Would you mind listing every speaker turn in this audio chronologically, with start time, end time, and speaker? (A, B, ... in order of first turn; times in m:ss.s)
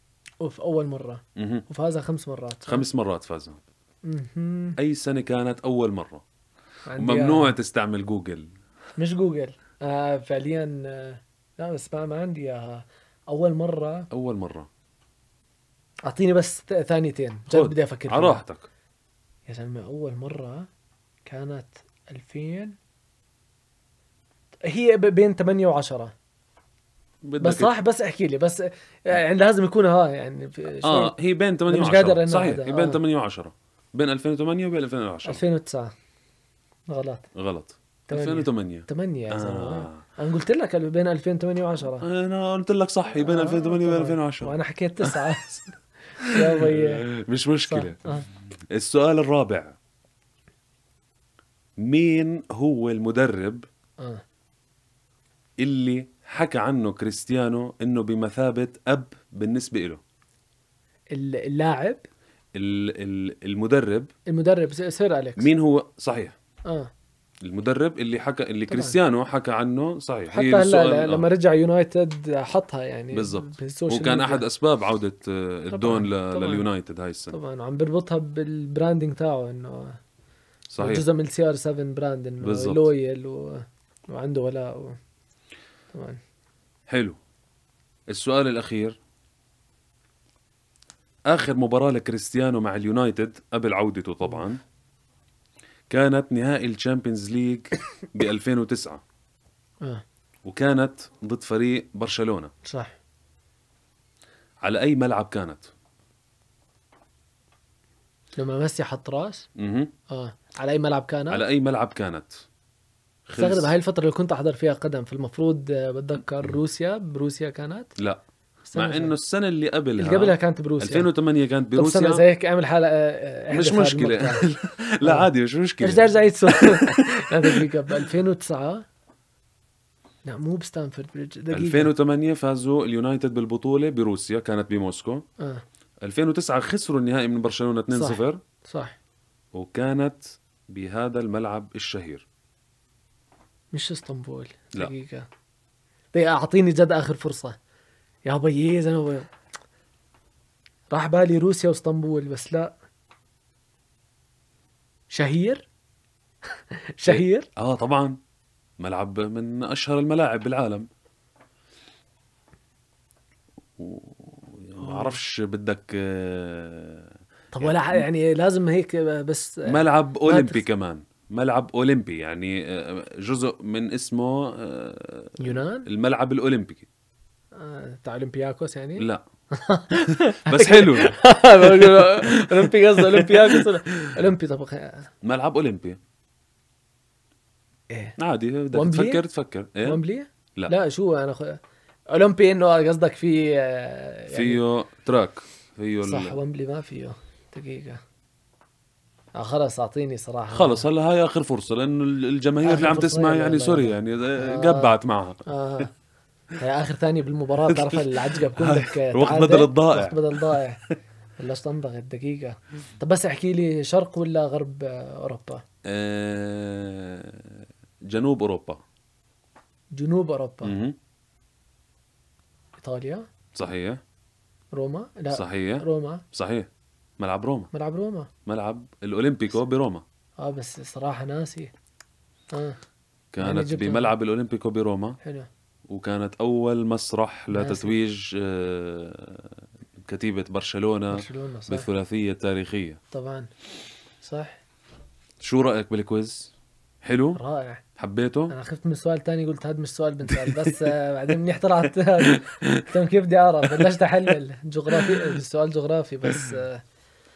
0:00.4-0:02.8 A
0:01.4-0:01.6 B
0:02.6-0:03.6 B
0:04.0-0:04.8 A
0:04.8-0:06.2 B
0:06.9-0:07.5 A
0:07.0-0:08.5 B
0:09.0-0:14.1 A
0:14.1-0:14.7 B
0:16.0-0:18.4 A
0:17.5-0:18.7 B
0:19.5-0:20.7 A
0:21.2-0:22.8 A
0:24.6-0:26.1 A
0:27.2-0:27.7 B
0:27.4-0:31.1 A
0:30.8-0:35.4 B
0:31.7-0:33.0 A
0:35.2-0:35.9 A
0:36.9-0:37.2 A
0:37.3-0:40.0 B
0:38.1-0:42.0 A
0:42.0-0:45.6 B
0:43.2-0:45.6 A
0:46.2-0:47.0 A
0:46.2-0:48.0 B
0:47.6-0:48.2 A
0:48.7-0:49.8 B
0:51.8-0:53.6 B
0:55.6-1:00.0 B
1:01.1-1:02.0 A
1:02.5-1:04.1 B
1:04.3-1:05.5 A
1:05.4-1:06.3 B
1:07.4-1:11.2 B
1:08.7-1:09.0 A
1:10.3-1:14.4 A
1:13.1-1:17.4 B
1:15.7-1:16.6 A
1:17.3-1:20.0 A
1:20.7-1:21.0 B
1:20.8-1:25.0 A
1:22.4-1:22.9 B
1:25.9-1:26.2 A
1:26.9-1:27.2 B
1:28.1-1:29.0 B
1:31.3-1:34.6 B
1:35.9-1:39.0 B
1:40.4-1:42.5 B
1:42.6-1:42.9 A
1:44.6-1:45.7 B
1:48.4-1:49.5 A
1:49.6-1:49.9 B
1:50.1-1:51.4 A
1:51.3-1:52.4 B
1:53.3-1:53.7 B
1:53.4-1:57.9 A
1:58.6-1:59.1 A
1:58.7-2:02.2 B
2:00.0-2:01.1 A
2:01.7-2:05.3 A
2:03.5-2:07.7 B
2:05.8-2:08.8 A
2:10.2-2:11.9 A
2:11.5-2:15.2 B
2:16.0-2:18.4 B
2:17.9-2:19.0 A
2:19.5-2:22.2 B
2:23.7-2:25.3 A
2:26.1-2:27.6 A
2:28.2-2:29.3 A
2:30.9-2:32.7 A
2:35.1-2:35.6 A
2:37.0-2:37.5 A
2:37.0-2:38.2 B
2:38.8-2:40.9 B
2:43.8-2:48.0 B
2:44.8-2:45.2 A
2:47.5-2:50.6 A
2:49.6-2:56.8 B
2:55.4-2:55.9 A
2:57.6-3:05.1 A
2:59.0-2:59.2 B
3:00.1-3:04.1 B
3:05.2-3:06.0 B
3:07.9-3:08.2 A
3:08.2-3:10.0 B
3:08.7-3:09.2 A
3:09.8-3:14.6 A
3:14.3-3:16.4 B
3:16.0-3:18.0 A
3:19.3-3:20.8 A
3:20.5-3:25.4 B
3:22.6-3:24.9 A
3:25.4-3:25.9 A
3:26.6-3:30.8 A
3:27.7-3:30.9 B
3:31.4-3:35.6 A
3:35.8-3:38.8 B
3:39.9-3:40.7 A
3:40.6-3:41.0 B
3:42.8-3:43.3 A
3:43.5-3:44.0 B
3:44.7-3:46.2 A
3:45.3-3:47.7 B
3:47.7-3:48.3 A
3:48.4-3:50.0 B
3:50.4-3:51.7 A
3:52.5-3:52.8 A
3:53.3-3:55.2 B
3:53.4-3:54.1 A
3:55.2-3:55.5 A
3:55.9-4:03.0 B
3:57.5-3:58.0 A
4:01.1-4:01.9 A
4:03.1-4:03.5 A
4:04.2-4:04.6 A
4:05.4-4:07.4 B
4:07.4-4:07.8 A
4:08.0-4:08.5 B
4:08.5-4:16.8 A
4:10.3-4:10.7 B
4:12.2-4:12.8 B
4:14.9-4:15.3 B